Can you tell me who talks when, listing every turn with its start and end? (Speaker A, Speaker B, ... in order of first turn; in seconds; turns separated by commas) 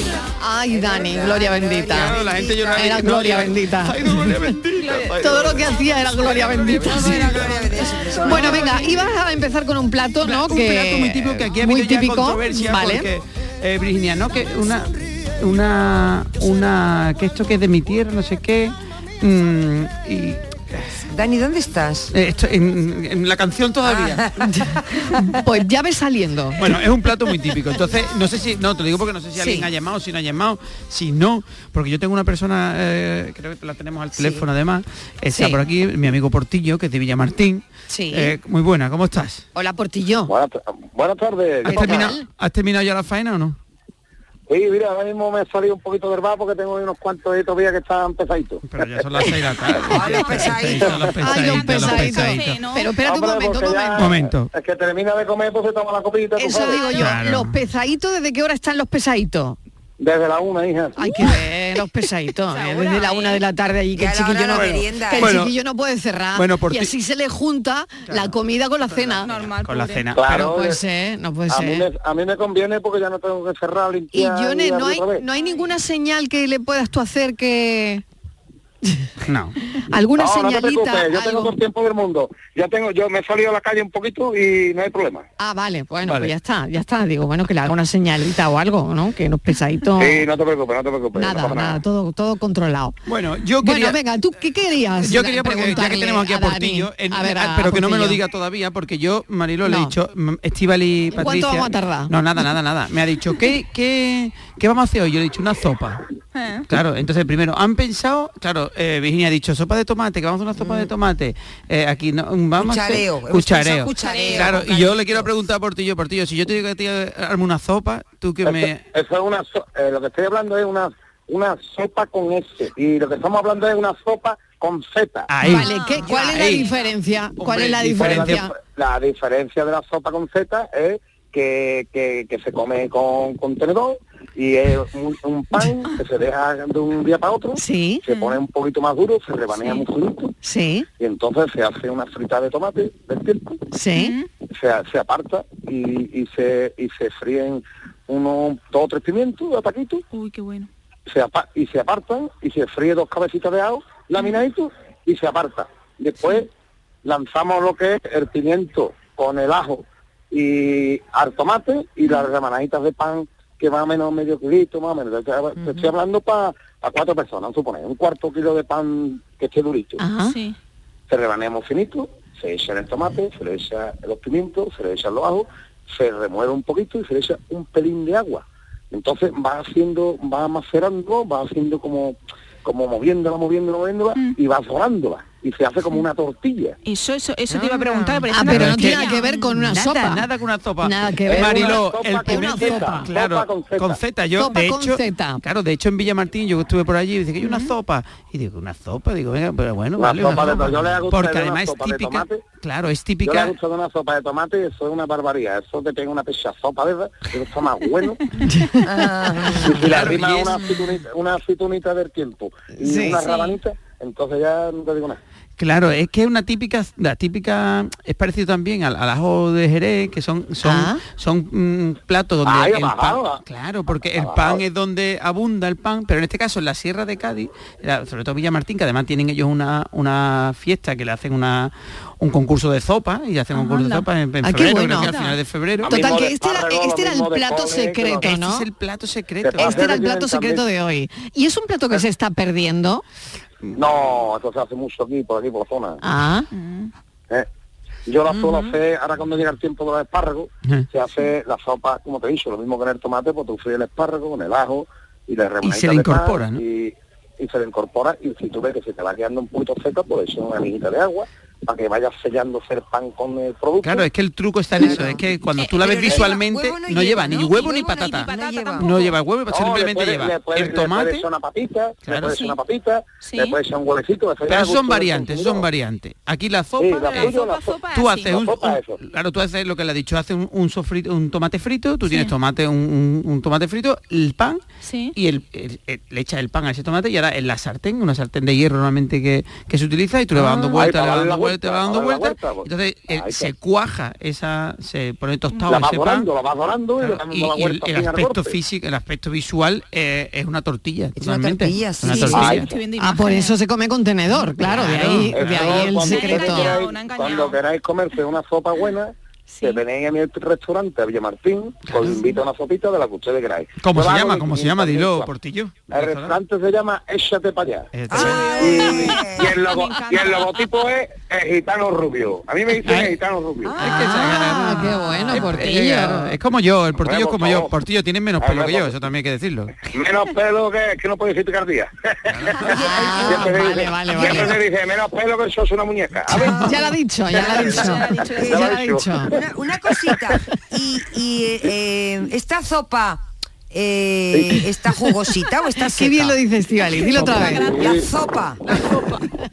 Speaker A: 0.4-4.5, Speaker B: 0.7-2.9, Speaker C: 1.8-8.8, Speaker D: 4.8-6.7, Speaker A: 5.2-7.5, Speaker B: 6.8-8.8, Speaker D: 7.8-8.2, Speaker A: 8.2-13.1, Speaker C: 10.2-20.9, Speaker B: 21.1-22.1, Speaker C: 22.1-24.4, Speaker B: 23.8-25.2, Speaker A: 24.4-26.6, Speaker C: 26.6-39.4, Speaker A: 29.4-29.7, Speaker B: 34.1-34.5, Speaker A: 35.3-35.6, Speaker A: 37.9-38.3, Speaker A: 39.5-40.3, Speaker E: 40.3-42.1, Speaker C: 41.6-43.6, Speaker A: 41.7-42.2, Speaker E: 44.5-49.0, Speaker C: 48.6-52.6, Speaker B: 49.9-50.9, Speaker D: 50.0-52.9, Speaker A: 51.2-54.1, Speaker E: 53.0-56.9, Speaker C: 53.9-54.5, Speaker A: 56.4-59.6, Speaker D: 56.7-57.0, Speaker C: 56.9-57.5, Speaker E: 60.0-61.0, Speaker A: 61.0-69.3, Speaker D: 62.5-63.4, Speaker B: 63.9-65.3, Speaker C: 64.5-65.5, Speaker C: 66.3-66.9, Speaker D: 69.2-70.1, Speaker C: 69.3-70.6, Speaker E: 70.1-70.8, Speaker A: 70.3-71.8, Speaker E: 71.5-75.2, Speaker A: 74.1-78.0, Speaker D: 75.3-75.7, Speaker C: 79.2-79.5, Speaker A: 79.9-81.5, Speaker E: 80.2-85.2, Speaker A: 85.4-90.2, Speaker C: 86.0-86.3, Speaker E: 90.0-91.8, Speaker A: 91.1-92.9, Speaker C: 93.0-94.0, Speaker A: 93.6-98.2, Speaker C: 95.0-106.0, Speaker A: 99.6-99.9, Speaker A: 101.1-102.1, Speaker D: 106.3-106.6, Speaker C: 106.7-118.8, Speaker B: 110.5-110.9, Speaker B: 112.6-115.3, Speaker D: 114.0-114.6, Speaker E: 118.4-125.3, Speaker C: 125.3-126.7, Speaker A: 125.4-128.5, Speaker D: 125.6-126.8, Speaker B: 126.0-126.5, Speaker C: 127.4-128.4, Speaker E: 128.0-140.3, Speaker A: 137.6-138.0, Speaker D: 138.1-138.4, Speaker D: 139.5-139.8, Speaker A: 140.4-140.8, Speaker E: 141.0-143.6, Speaker A: 143.7-144.2, Speaker D: 143.9-144.3, Speaker E: 144.5-150.0, Speaker D: 150.1-150.7, Speaker E: 151.1-156.5, Speaker E: 157.0-170.0, Speaker B: 165.6-165.9, Speaker A: 170.0-170.3, Speaker D: 170.2-170.6, Speaker E: 171.1-186.8, Speaker D: 186.8-189.4, Speaker B: 187.5-188.3, Speaker A: 188.3-190.3, Speaker C: 188.4-203.6, Speaker A: 190.8-193.1, Speaker E: 191.3-194.0, Speaker A: 194.4-195.4, Speaker D: 197.4-197.7, Speaker E: 200.0-202.4, Speaker E: 203.2-208.2, Speaker A: 208.5-208.8, Speaker B: 208.8-209.9, Speaker E: 209.6-215.2, Speaker C: 209.6-210.8, Speaker A: 212.8-213.3, Speaker D: 213.2-213.6, Speaker C: 215.6-236.2, Speaker A: 220.6-221.0, Speaker E: 222.4-224.6, Speaker D: 233.6-234.0, Speaker A: 234.4-235.1, Speaker D: 234.7-235.4, Speaker E: 235.8-238.2, Speaker A: 235.8-238.6, Speaker C: 238.2-239.9, Speaker E: 239.4-240.6, Speaker A: 239.6-243.0, Speaker E: 243.8-246.0, Speaker A: 246.0-246.5, Speaker D: 246.5-246.9, Speaker E: 248.1-264.1, Speaker B: 248.3-248.7, Speaker C: 255.6-256.6, Speaker C: 263.8-271.3, Speaker B: 264.8-269.0, Speaker D: 265.5-266.3, Speaker D: 267.5-269.1, Speaker E: 269.5-275.7, Speaker C: 272.1-272.4, Speaker D: 272.2-272.6, Speaker D: 273.2-273.6, Speaker C: 274.4-277.4, Speaker E: 276.8-279.0, Speaker D: 277.1-278.3, Speaker C: 277.9-284.6, Speaker D: 282.1-282.3, Speaker D: 284.8-285.1, Speaker C: 285.1-296.3, Speaker B: 290.4-290.7, Speaker E: 290.7-293.5, Speaker D: 295.5-295.9, Speaker E: 295.6-298.6, Speaker C: 297.0-302.7, Speaker B: 301.1-302.7, Speaker D: 302.1-303.6, Speaker E: 302.3-302.6, Speaker A: 303.0-306.8, Speaker C: 304.6-305.9, Speaker E: 305.3-315.3, Speaker D: 305.7-307.6, Speaker D: 309.5-309.8, Speaker C: 311.9-312.3, Speaker C: 313.8-316.4, Speaker E: 315.9-317.9, Speaker C: 317.9-319.1, Speaker B: 318.1-319.6, Speaker D: 318.1-320.8, Speaker E: 318.5-323.7, Speaker C: 322.8-323.2, Speaker C: 323.8-329.7, Speaker A: 323.8-326.3, Speaker D: 324.7-326.1, Speaker E: 327.0-327.7, Speaker E: 328.4-328.9, Speaker E: 329.9-336.5, Speaker C: 332.3-332.7, Speaker B: 332.7-333.6, Speaker A: 332.7-334.6, Speaker A: 336.3-339.3, Speaker B: 336.3-336.9, Speaker E: 337.3-337.8, Speaker D: 337.3-338.8, Speaker B: 338.4-338.7, Speaker E: 338.6-339.3, Speaker B: 339.3-346.4, Speaker A: 345.8-347.7, Speaker D: 346.8-349.3, Speaker E: 347.7-348.1, Speaker B: 347.8-348.6